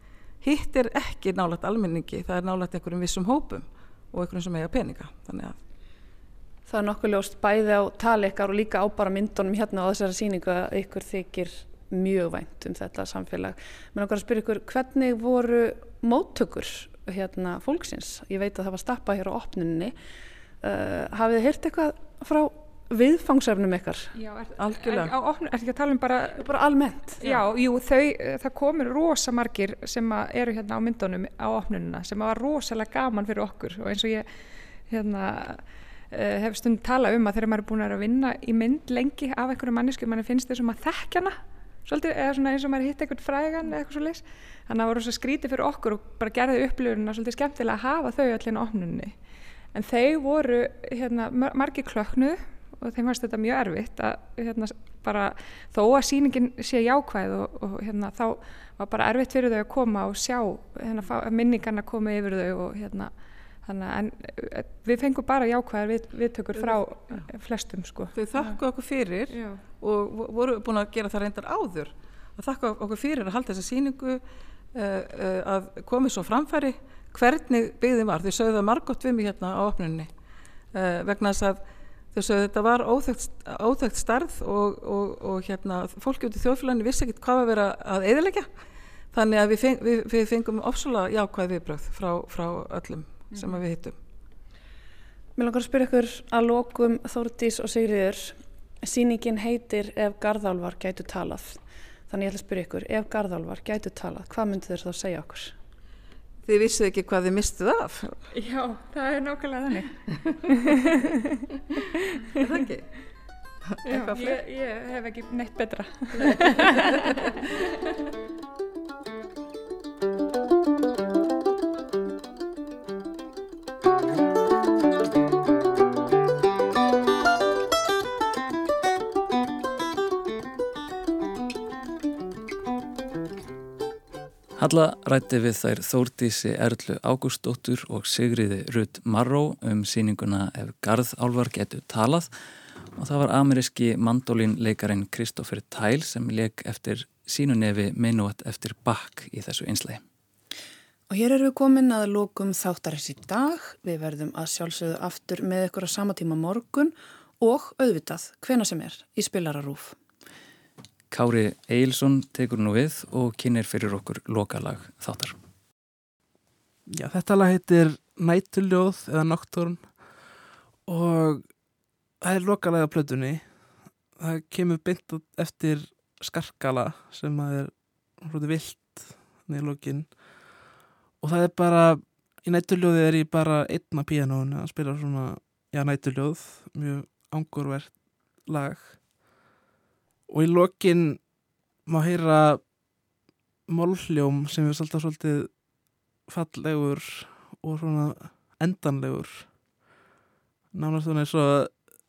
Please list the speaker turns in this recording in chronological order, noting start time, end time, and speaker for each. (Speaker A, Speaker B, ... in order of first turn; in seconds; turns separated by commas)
Speaker A: 0.4-5.6, Speaker B: 6.7-19.9, Speaker B: 20.6-24.1, Speaker C: 24.2-26.4, Speaker A: 24.6-25.1, Speaker B: 26.4-27.3, Speaker C: 27.2-34.3, Speaker C: 34.9-49.2, Speaker C: 49.7-63.1, Speaker C: 63.6-68.5, Speaker A: 66.6-67.2, Speaker A: 68.1-74.2, Speaker C: 69.3-69.7, Speaker A: 74.7-80.1, Speaker A: 80.7-88.5, Speaker A: 89.1-94.0, Speaker B: 95.4-105.5, Speaker A: 106.5-108.2, Speaker C: 108.3-112.5, Speaker A: 112.3-112.9, Speaker A: 113.7-114.4, Speaker C: 113.9-117.6, Speaker A: 116.2-117.1, Speaker D: 134.6-142.3, Speaker D: 143.0-150.0, Speaker B: 151.1-160.0, Speaker D: 161.1-165.3, Speaker E: 166.9-170.1, Speaker E: 170.9-171.4, Speaker E: 172.2-173.6, Speaker E: 174.2-180.2, Speaker E: 181.2-189.0, Speaker E: 190.3-191.2, Speaker E: 191.9-192.7, Speaker E: 193.7-195.6, Speaker E: 196.3-199.6, Speaker E: 200.7-201.9